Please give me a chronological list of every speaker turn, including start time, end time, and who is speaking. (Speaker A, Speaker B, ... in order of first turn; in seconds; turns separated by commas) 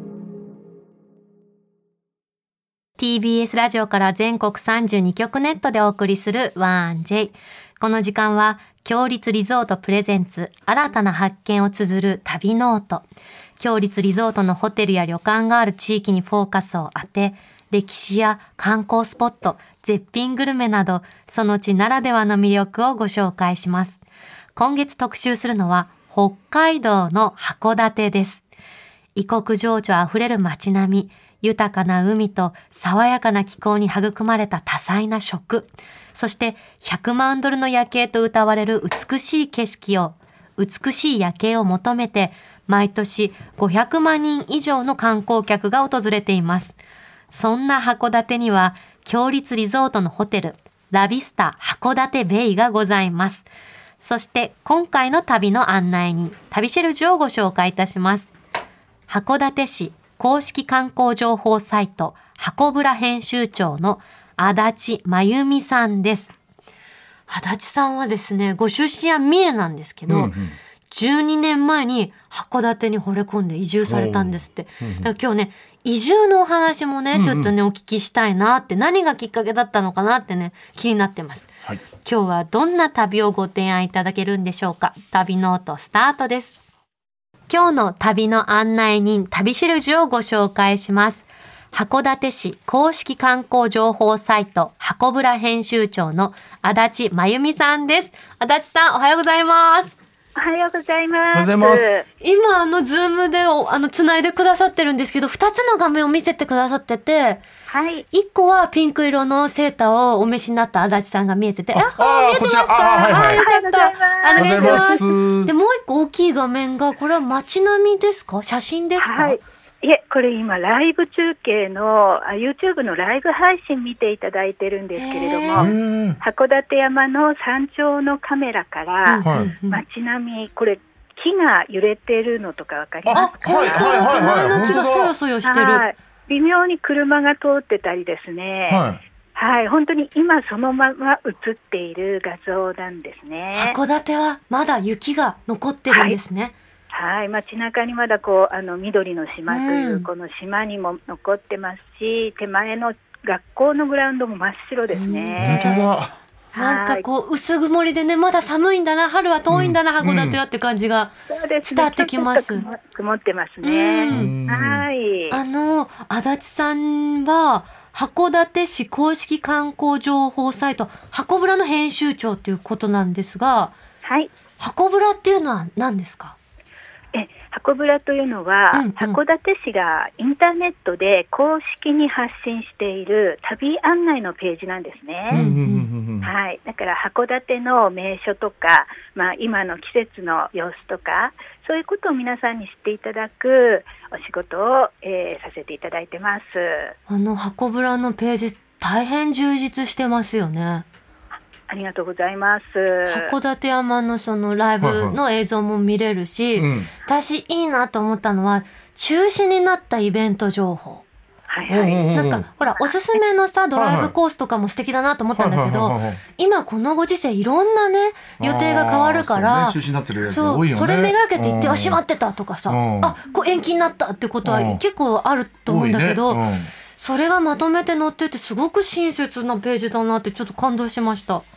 Speaker A: 3.0-13.1, Speaker A: 13.6-24.0, Speaker A: 24.6-28.4, Speaker A: 29.1-46.8, Speaker A: 47.3-53.5, Speaker A: 54.0-58.3, Speaker A: 59.1-66.3, Speaker A: 67.3-70.3, Speaker B: 70.1-70.6, Speaker A: 70.9-81.5, Speaker B: 73.8-75.1, Speaker B: 77.1-77.5, Speaker A: 82.0-86.6, Speaker A: 87.5-99.9, Speaker C: 100.3-102.0, Speaker B: 101.3-101.9, Speaker A: 102.2-107.4, Speaker C: 107.7-108.0, Speaker A: 108.1-119.4, Speaker B: 111.7-113.4, Speaker C: 113.0-115.0, Speaker B: 114.3-115.5, Speaker C: 119.0-134.7, Speaker A: 125.0-125.7, Speaker B: 125.5-126.2, Speaker A: 129.1-129.8, Speaker B: 129.2-129.5, Speaker B: 133.0-135.1, Speaker A: 133.1-135.8, Speaker C: 135.4-143.8, Speaker B: 138.7-139.0, Speaker A: 143.5-146.6, Speaker C: 145.9-146.2, Speaker C: 146.9-155.8, Speaker A: 149.5-150.1, Speaker A: 154.9-155.9, Speaker B: 155.4-156.2, Speaker C: 156.5-157.0, Speaker A: 156.5-162.7, Speaker B: 159.5-160.4, Speaker C: 161.3-165.4, Speaker A: 163.6-164.3, Speaker B: 164.1-164.8, Speaker A: 165.3-173.8, Speaker C: 174.0-174.3, Speaker A: 174.6-176.3, Speaker C: 177.1-185.4, Speaker A: 178.7-179.2, Speaker B: 185.3-186.3, Speaker A: 185.3-185.9, Speaker C: 186.2-196.9, Speaker A: 197.1-200.8, Speaker C: 201.7-203.3, Speaker A: 203.1-211.0, Speaker B: 204.8-205.2, Speaker B: 206.6-206.9, Speaker C: 211.5-212.1, Speaker B: 211.7-212.4, Speaker A: 212.1-226.4, Speaker C: 212.8-213.2, Speaker B: 213.8-214.1, Speaker B: 215.3-216.2, Speaker B: 218.4-222.0, Speaker B: 222.7-223.1, Speaker B: 224.4-224.8, Speaker B: 225.7-226.7, Speaker A: 226.9-231.4